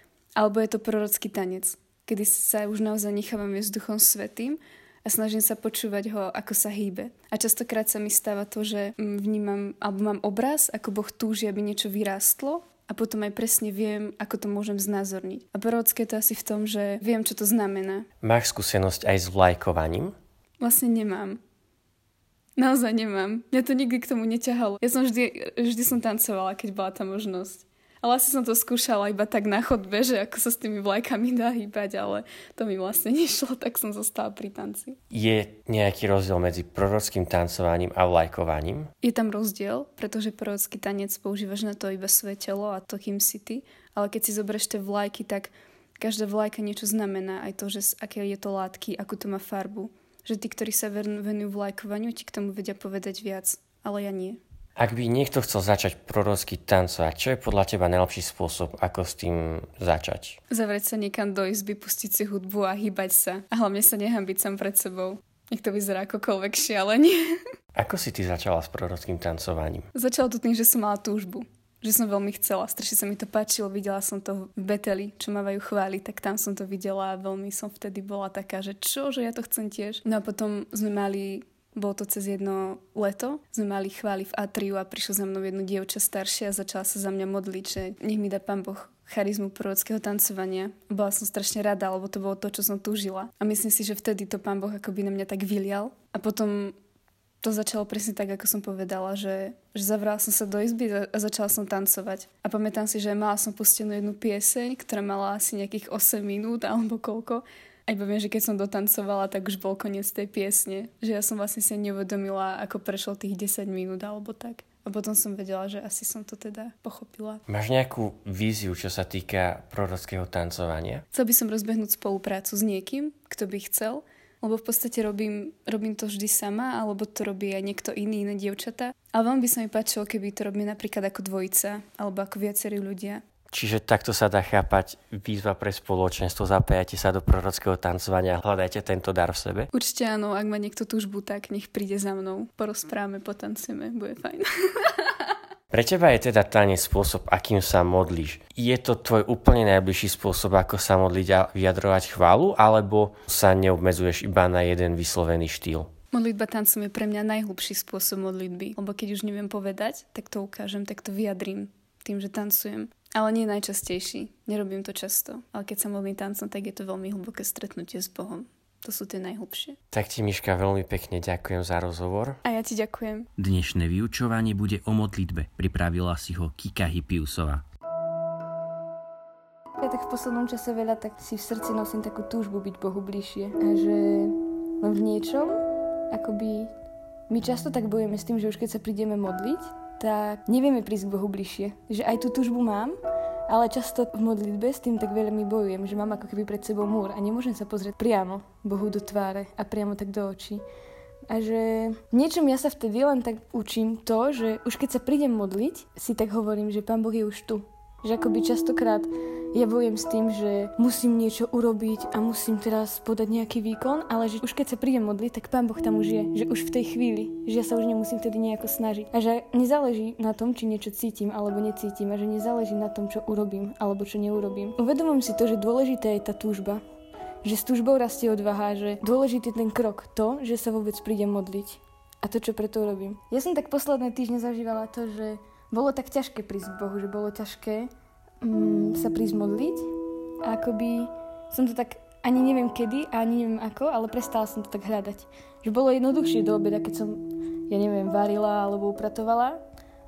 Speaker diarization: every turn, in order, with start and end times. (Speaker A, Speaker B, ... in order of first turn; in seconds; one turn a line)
Speaker A: 0.4-18.1
Speaker B: 18.2-20.1
Speaker A: 20.6-21.4
Speaker A: 22.6-35.0
Speaker B: 35.1-38.9
Speaker A: 39.0-54.4
Speaker B: 54.8-60.4
Speaker A: 60.5-67.4
Speaker B: 67.7-69.9
Speaker A: 69.9-96.8
Speaker A: 97.4-117.4
Speaker B: 117.5-121.0
Speaker A: 121.1-133.2
Speaker B: 133.5-139.7
Speaker A: 139.7-145.2
Speaker B: 145.7-155.9
Speaker A: 156.1-169.8
Speaker B: 169.9-172.4
Speaker A: 172.4-173.3
Speaker C: 173.4-177.6
Speaker D: 179.8-186.7
Speaker D: 187.3-192.9
Speaker D: 193.5-200.6
Speaker D: 201.3-226.8
Speaker D: 227.4-237.9
Speaker D: 238.4-239.9
Speaker D: 240.4-249.6